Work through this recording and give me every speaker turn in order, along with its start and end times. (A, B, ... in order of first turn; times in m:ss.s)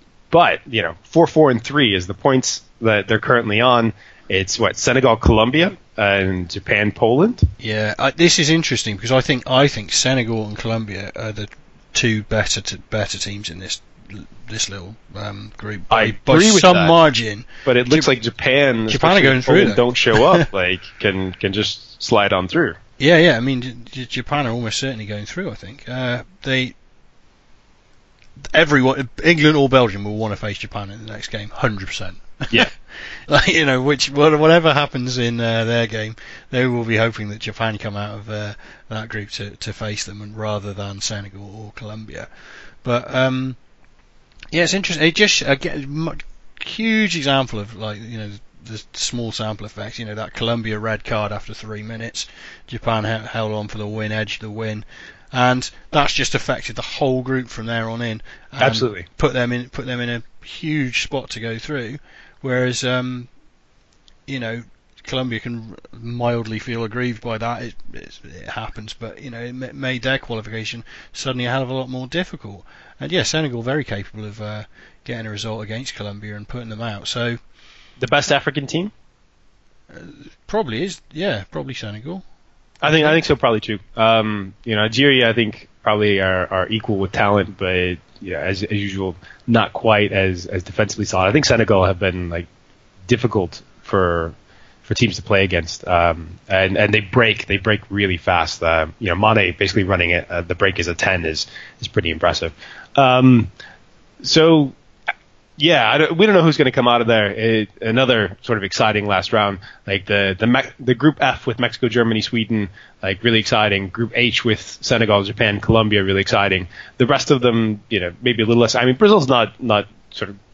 0:00.3-0:07.5 A
0:07.6-0:18.1 B
0:15.9-0:17.0 A
0:17.6-0:22.8 A
0:18.9-0:20.5 B
0:23.0-0:26.7 B
0:28.5-0:42.3 B
0:42.8-0:43.6 B
0:44.5-1:03.3 B
0:58.6-0:59.0 A
1:04.3-1:17.4 B
1:18.0-1:18.9 A
1:19.9-1:22.2 B
1:22.8-1:32.5 A
1:22.9-1:23.2 B
1:33.1-1:43.5 A
1:44.2-1:44.8 A
1:45.6-2:00.4 A